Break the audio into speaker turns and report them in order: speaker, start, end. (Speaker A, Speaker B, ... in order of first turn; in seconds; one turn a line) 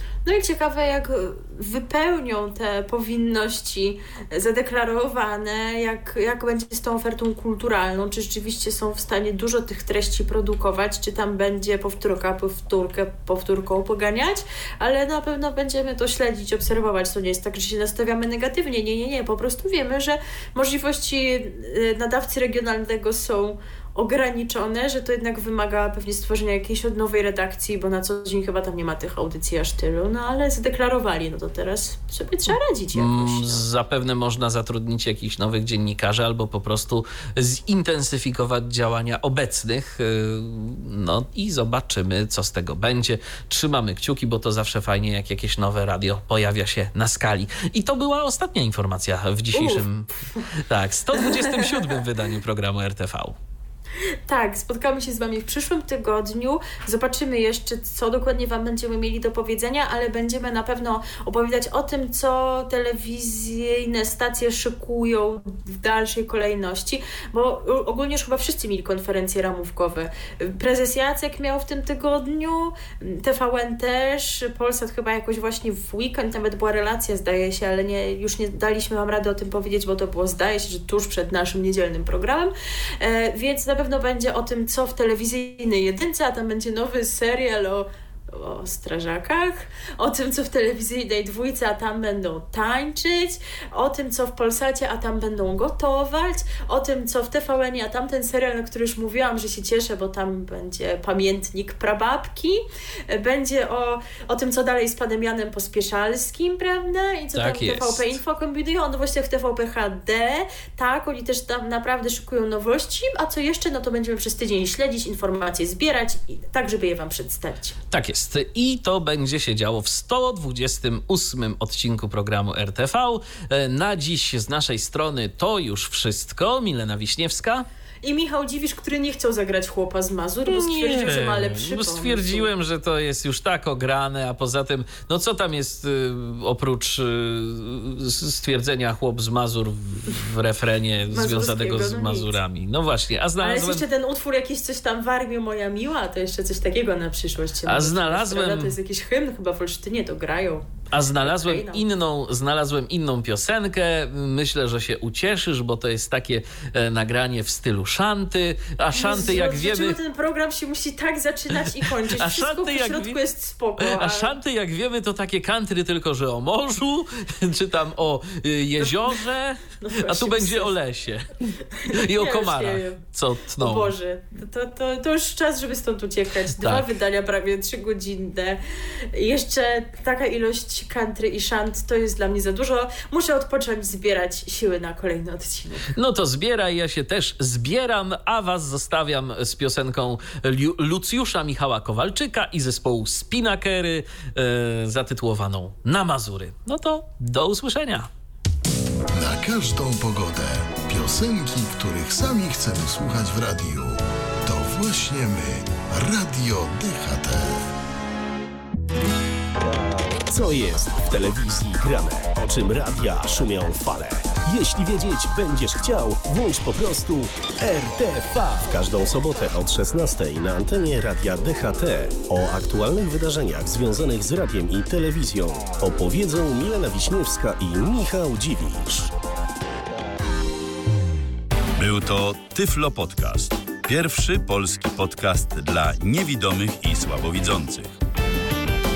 Speaker A: 0.2-33.6
Speaker B: 32.9-53.4
Speaker A: 49.5-50.5
Speaker A: 51.2-51.6
Speaker A: 54.3-117.8
Speaker B: 107.3-108.1
Speaker B: 117.9-127.7
Speaker A: 128.0-132.5
Speaker B: 130.5-143.8
Speaker A: 141.1-142.4
Speaker A: 143.4-150.7
Speaker B: 147.7-148.7
Speaker B: 150.9-160.0
Speaker A: 151.2-151.8
Speaker A: 158.9-164.3
Speaker B: 162.2-163.2
Speaker B: 163.8-173.9
Speaker A: 168.8-169.2
Speaker A: 169.8-170.7
Speaker A: 171.8-173.0
Speaker A: 173.6-178.6
Speaker B: 176.6-176.9
Speaker A: 179.1-185.9
Speaker B: 185.9-198.1
Speaker C: 199.1-207.6
Speaker D: 209.6-229.1
Speaker E: 231.8-238.0